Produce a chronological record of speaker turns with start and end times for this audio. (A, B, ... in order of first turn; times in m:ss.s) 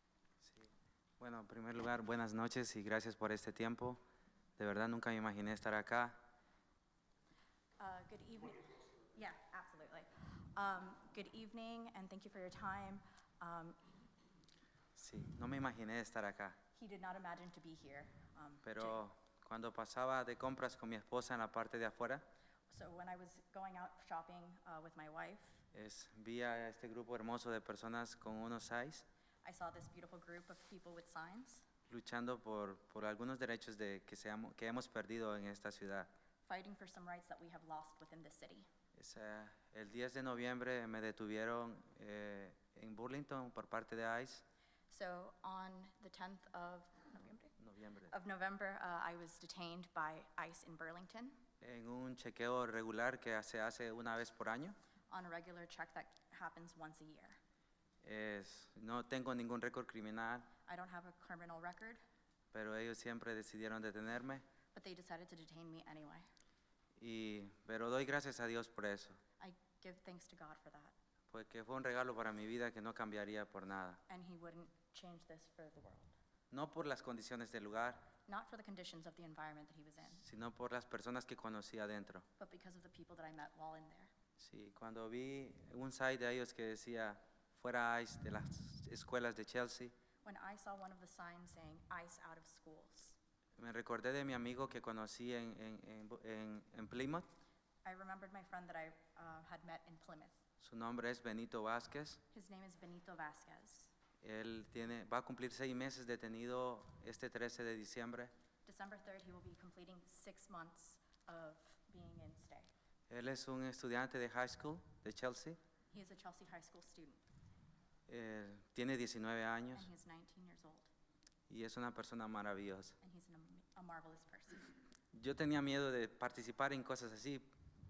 0:00.4-0:04.0 A
0:04.6-0:06.2 A
0:07.8-0:13.8 B
0:14.9-0:16.6 A
0:16.7-0:19.0 B
0:18.6-0:22.2 A
0:22.7-0:25.6 B
0:25.7-0:29.0 A
0:29.4-0:31.6 B
0:31.9-0:36.1 A
0:36.4-0:38.7 B
0:39.0-0:44.4 A
0:44.9-0:47.5 B
0:47.6-0:48.1 A
0:48.1-0:51.4 B
0:51.6-0:54.7 A
0:55.1-0:57.4 B
0:58.0-1:00.5 A
1:00.6-1:02.0 B
1:02.5-1:04.4 A
1:04.7-1:06.3 B
1:07.0-1:09.2 A
1:09.4-1:10.9 B
1:11.3-1:14.0 A
1:14.1-1:16.1 B
1:16.5-1:18.1 A
1:18.2-1:20.2 B
1:20.1-1:22.2 A
1:22.4-1:24.1 B
1:24.4-1:29.9 A
1:30.2-1:33.2 B
1:33.6-1:37.3 A
1:37.8-1:40.4 B
1:40.6-1:42.2 A
1:42.3-1:43.9 B
1:44.2-1:48.3 A
1:48.6-1:52.7 B
1:53.1-1:55.6 A
1:55.9-1:57.2 B
1:58.1-1:59.9 A
1:59.7-2:00.9 B
2:01.5-2:02.9 A
2:03.0-2:04.8 B
2:05.1-2:07.5 A